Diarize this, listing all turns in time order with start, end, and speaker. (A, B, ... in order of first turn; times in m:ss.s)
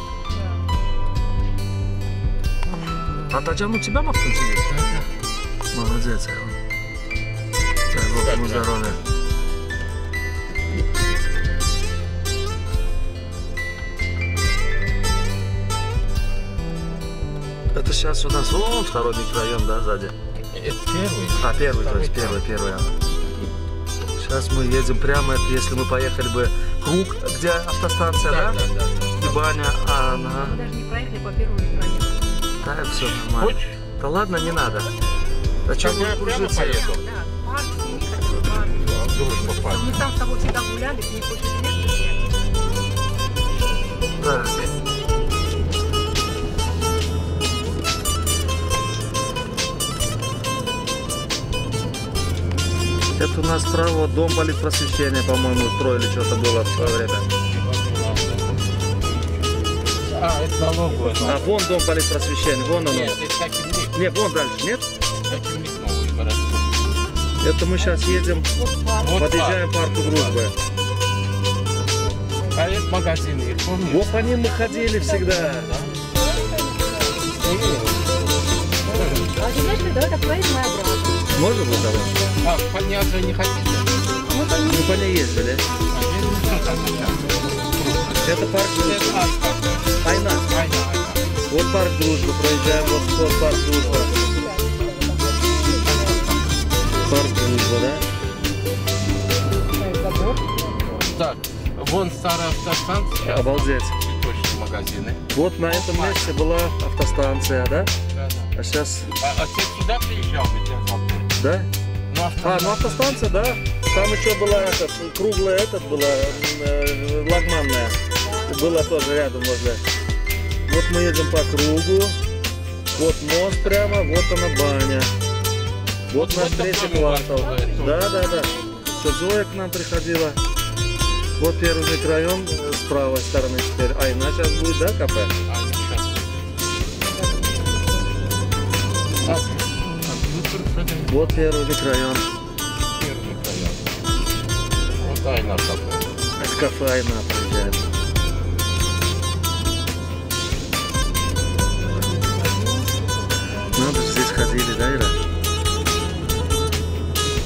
0:00.3-0:00.6 A
0:03.3-0:04.8 B
0:04.7-0:05.1 C
0:05.7-0:06.6 B
0:07.9-0:09.0 B
0:08.2-0:09.0 C
0:17.7-0:20.1 B
0:20.5-0:22.4 C
0:21.4-0:23.0 B
0:24.2-0:28.6 B
0:28.2-0:29.4 C
0:29.2-0:30.6 B
0:30.1-0:32.4 A
0:32.6-0:34.9 B
0:32.9-0:33.8 C
0:34.3-0:35.2 A
0:35.6-0:36.8 B
0:35.8-0:37.0 C
0:36.3-0:42.3 A
0:39.0-0:40.0 C
0:44.2-0:44.5 B
0:44.2-0:44.7 C
0:53.2-0:57.3 B
0:56.7-1:01.5 C
1:00.8-1:02.8 A
1:01.2-1:03.2 B
1:02.4-1:04.0 C
1:03.9-1:04.9 B
1:05.2-1:06.7 C
1:07.4-1:08.5 B
1:07.8-1:09.2 A
1:09.0-1:10.4 C
1:09.1-1:10.5 B
1:12.0-1:12.7 A
1:12.5-1:14.1 C
1:13.9-1:15.8 B
1:14.0-1:17.4 A
1:17.4-1:18.3 C
1:18.8-1:22.4 A
1:18.8-1:19.4 C
1:21.3-1:22.1 B
1:22.4-1:24.2 C
1:24.2-1:24.9 A
1:24.6-1:25.6 B
1:25.9-1:31.3 C
1:26.3-1:26.8 A
1:28.2-1:29.3 B
1:30.0-1:30.4 B
1:31.5-1:34.1 B
1:32.8-1:36.3 A
1:35.5-1:36.6 C
1:37.0-1:38.0 B
1:39.7-1:40.8 A
1:40.8-1:46.3 C
1:43.2-1:44.0 B
1:45.3-1:47.9 B
1:48.1-1:48.5 C
1:48.5-1:49.1 B
1:49.2-1:51.3 C
1:51.4-1:51.7 B
1:52.1-1:54.8 C
1:52.4-1:59.8 B
1:55.7-1:56.4 C
1:58.2-1:59.0 A
2:00.7-2:02.2 B
2:02.9-2:05.1 B
2:03.4-2:04.1 C
2:06.1-2:10.4 B
2:06.1-2:08.2 C
2:07.3-2:09.2 A
2:11.4-2:15.3 B
2:15.4-2:16.4 C
2:16.8-2:18.5 A
2:19.2-2:21.5 C
2:21.1-2:22.2 B
2:22.9-2:23.9 C
2:25.0-2:26.1 C
2:26.4-2:27.8 B
2:31.6-2:34.1 A
2:33.8-2:35.2 B